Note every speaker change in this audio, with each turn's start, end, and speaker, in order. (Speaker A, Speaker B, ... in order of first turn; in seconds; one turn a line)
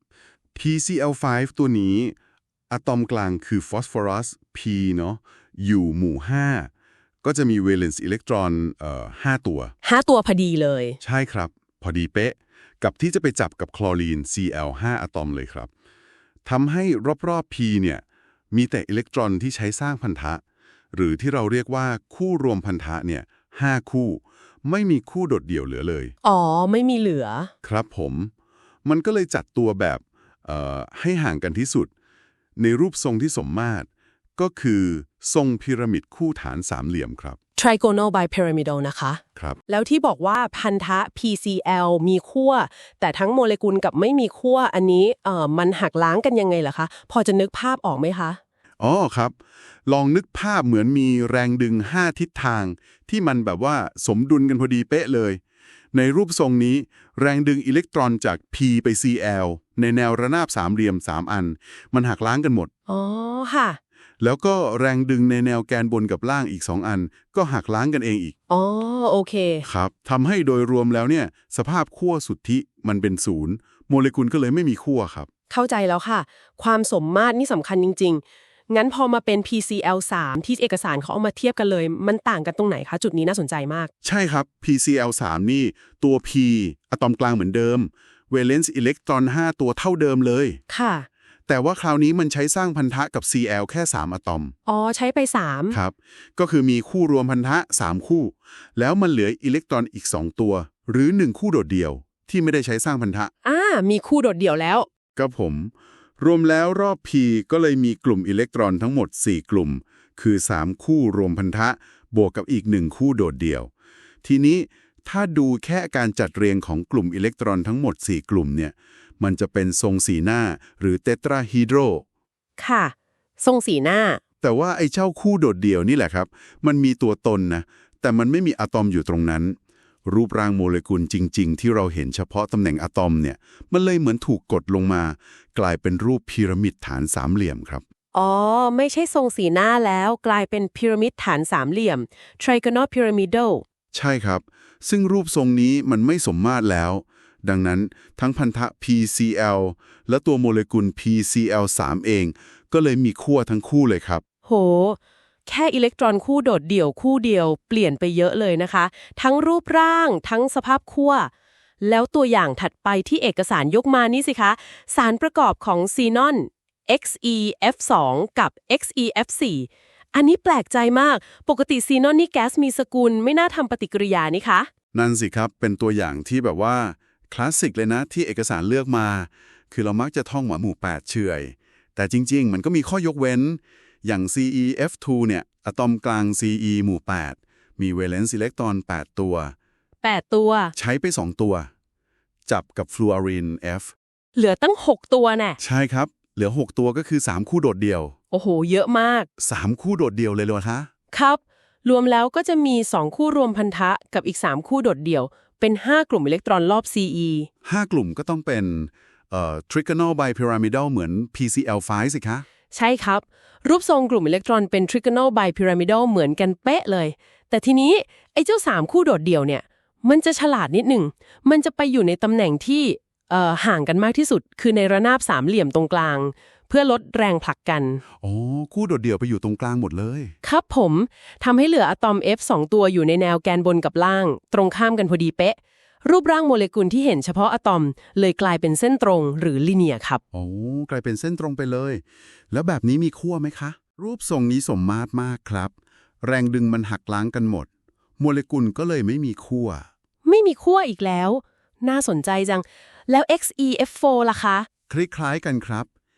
Speaker A: 0.5-2.1
Speaker A: 2.7-6.7
Speaker A: 7.2-9.7
Speaker B: 9.8-11.0
Speaker A: 11.0-15.7
Speaker A: 16.4-20.4
Speaker A: 20.9-26.1
Speaker B: 26.2-27.5
Speaker A: 27.6-28.3
Speaker A: 28.8-31.9
Speaker A: 32.6-37.4
Speaker B: 37.6-48.4
Speaker A: 48.8-49.3
Speaker A: 49.9-55.4
Speaker A: 55.9-62.7
Speaker B: 62.9-63.8
Speaker A: 64.2-68.3
Speaker B: 68.5-69.7
Speaker A: 69.6-75.3
Speaker B: 75.5-83.9
Speaker A: 84.0-90.6
Speaker B: 90.7-91.1
Speaker A: 91.5-94.5
Speaker B: 94.7-95.8
Speaker A: 95.7-103.3
Speaker B: 103.4-104.9
Speaker A: 105.2-113.7
Speaker A: 114.2-122.0
Speaker B: 122.6-124.2
Speaker A: 124.4-137.8
Speaker B: 138.1-143.6
Speaker A: 143.9-154.2
Speaker B: 154.4-161.3
Speaker B: 161.8-174.7
Speaker A: 174.9-189.5
Speaker B: 190.0-190.7
Speaker A: 190.8-191.7
Speaker A: 192.5-193.9
Speaker B: 194.3-195.6
Speaker A: 195.6-198.2
Speaker B: 198.3-199.3
Speaker A: 199.4-200.9
Speaker B: 201.1-207.5
Speaker A: 207.7-212.4
Speaker B: 212.7-228.0
Speaker A: 228.2-230.3
Speaker B: 230.4-240.2
Speaker A: 240.3-249.9
Speaker B: 250.2-254.7
Speaker A: 254.9-255.9